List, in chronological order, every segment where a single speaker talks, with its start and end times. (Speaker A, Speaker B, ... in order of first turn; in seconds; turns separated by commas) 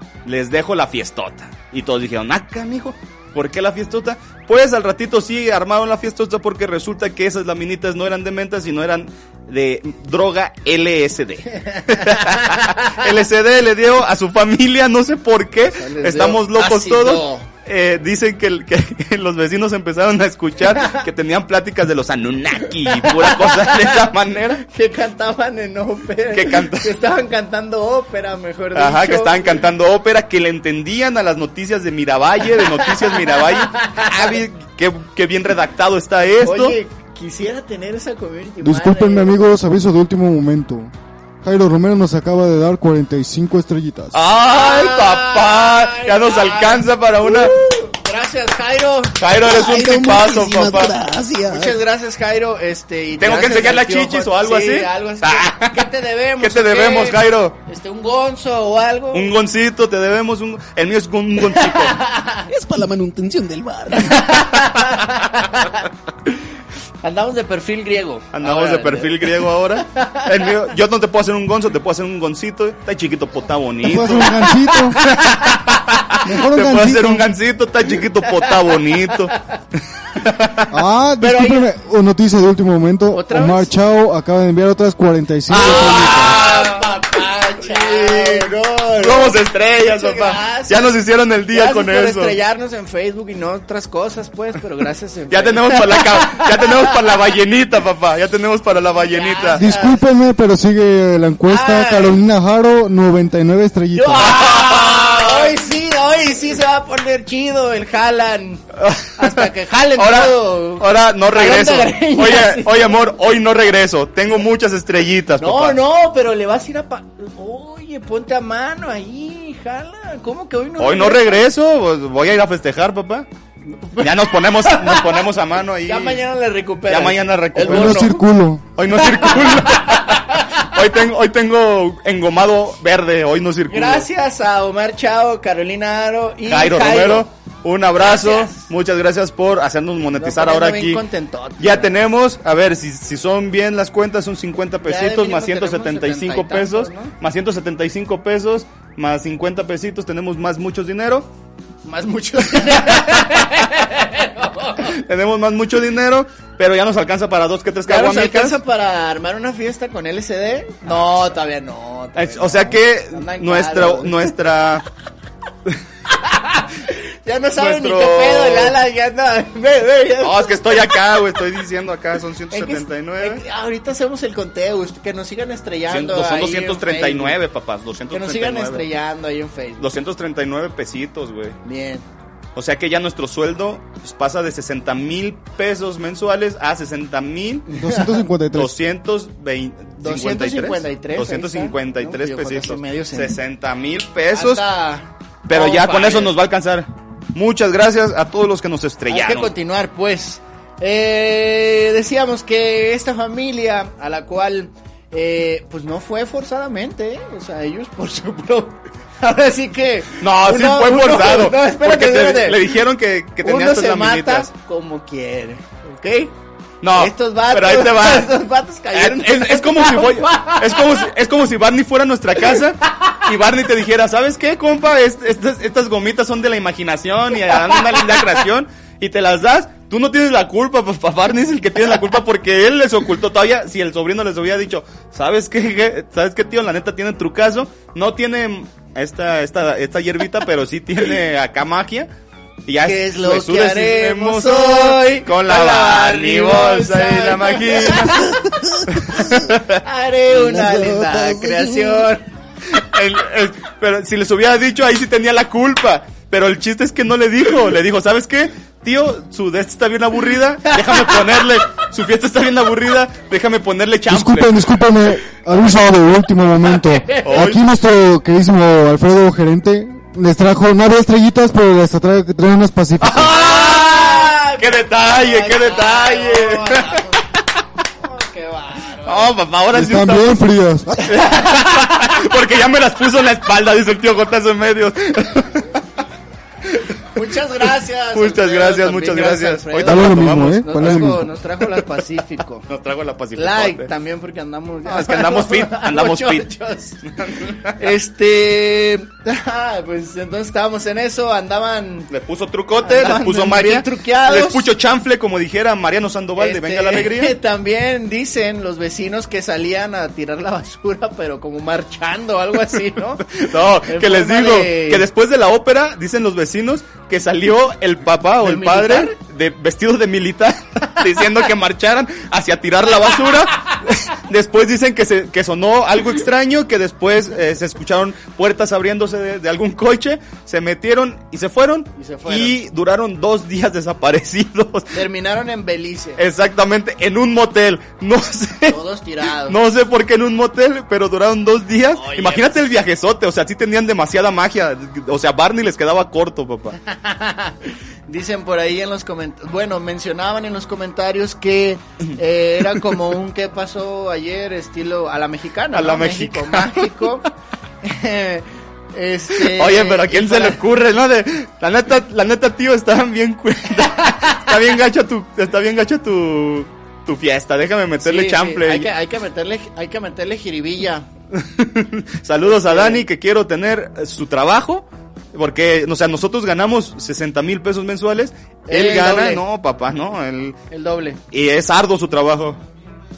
Speaker A: 0.2-24.6, Speaker B: 11.7-12.9, Speaker B: 15.7-17.5, Speaker B: 22.9-24.1, Speaker B: 24.6-29.5, Speaker A: 26.3-26.9, Speaker A: 28.7-36.8, Speaker B: 33.1-34.4, Speaker B: 36.4-39.4, Speaker C: 38.6-44.2, Speaker A: 44.1-47.5, Speaker B: 44.5-49.2, Speaker A: 49.2-50.9, Speaker D: 49.4-51.8, Speaker B: 51.5-59.3, Speaker A: 53.2-55.9, Speaker A: 56.4-57.6, Speaker A: 59.1-62.0, Speaker B: 61.5-62.5, Speaker D: 62.5-64.4, Speaker B: 64.0-65.8, Speaker B: 67.0-70.2, Speaker A: 68.3-79.3, Speaker C: 73.8-75.0, Speaker C: 76.2-77.3, Speaker A: 80.1-80.7, Speaker C: 80.7-86.4, Speaker B: 81.2-81.7, Speaker B: 83.1-83.7, Speaker A: 85.5-92.4, Speaker B: 85.5-97.0, Speaker A: 95.3-99.6, Speaker B: 99.0-100.0, Speaker C: 99.5-104.3, Speaker B: 101.5-102.2, Speaker B: 103.9-108.6, Speaker A: 104.2-105.5, Speaker A: 108.8-109.4, Speaker B: 109.2-113.0, Speaker A: 110.0-115.8, Speaker B: 115.4-121.5, Speaker A: 120.8-123.3, Speaker B: 123.8-125.3, Speaker A: 124.0-126.2, Speaker B: 125.8-128.2, Speaker A: 126.9-128.2, Speaker C: 127.5-128.6, Speaker A: 128.8-134.1, Speaker B: 128.9-130.5, Speaker B: 133.7-137.3, Speaker A: 136.5-141.0, Speaker B: 138.0-138.7, Speaker B: 140.1-141.9, Speaker A: 141.6-151.3, Speaker B: 144.8-147.1, Speaker B: 151.8-154.9, Speaker A: 152.5-153.4, Speaker A: 154.8-158.6, Speaker B: 157.9-164.3, Speaker A: 162.1-164.8, Speaker B: 166.2-170.8, Speaker A: 167.6-168.8, Speaker A: 170.2-173.4, Speaker B: 172.5-177.4, Speaker A: 175.9-178.9, Speaker B: 178.1-179.9, Speaker A: 179.8-181.6, Speaker B: 181.6-182.0, Speaker A: 182.6-187.7, Speaker B: 187.7-188.2, Speaker C: 187.7-188.7, Speaker A: 188.5-194.6, Speaker B: 190.0-193.4, Speaker B: 194.3-196.3, Speaker A: 195.5-199.5, Speaker B: 199.1-212.7, Speaker A: 210.2-214.5, Speaker B: 213.4-216.3, Speaker A: 216.8-218.3, Speaker B: 216.9-220.9, Speaker A: 218.9-242.1, Speaker A: 242.7-248.2, Speaker B: 242.8-248.3, Speaker D: 248.3-249.5, Speaker A: 248.9-249.8, Speaker B: 249.8-252.2, Speaker D: 250.3-252.1, Speaker A: 252.7-264.7, Speaker C: 264.1-273.3, Speaker B: 266.8-267.4, Speaker A: 267.2-267.6, Speaker A: 273.0-277.1, Speaker B: 273.2-277.2, Speaker B: 278.0-279.3, Speaker A: 279.0-280.4, Speaker C: 279.7-281.1, Speaker A: 281.0-285.7, Speaker B: 287.1-292.6, Speaker A: 288.1-291.0, Speaker C: 289.8-291.3, Speaker A: 292.6-293.9, Speaker B: 293.4-297.1, Speaker A: 294.8-296.5, Speaker A: 297.2-297.8, Speaker B: 297.6-302.1, Speaker A: 302.1-307.4, Speaker B: 302.8-304.7, Speaker B: 306.4-313.3, Speaker A: 313.2-334.9, Speaker B: 313.8-315.0, Speaker B: 318.4-319.1, Speaker B: 331.9-332.6, Speaker B: 334.9-336.2, Speaker A: 336.2-338.8, Speaker B: 338.7-339.6, Speaker A: 339.4-346.8, Speaker B: 341.9-342.6, Speaker B: 346.9-357.3, Speaker A: 355.7-357.2, Speaker B: 357.8-360.6, Speaker A: 359.3-368.9, Speaker B: 368.0-371.1, Speaker A: 371.3-380.6, Speaker B: 372.4-373.1, Speaker B: 378.7-379.4, Speaker B: 380.7-381.2, Speaker A: 381.3-382.6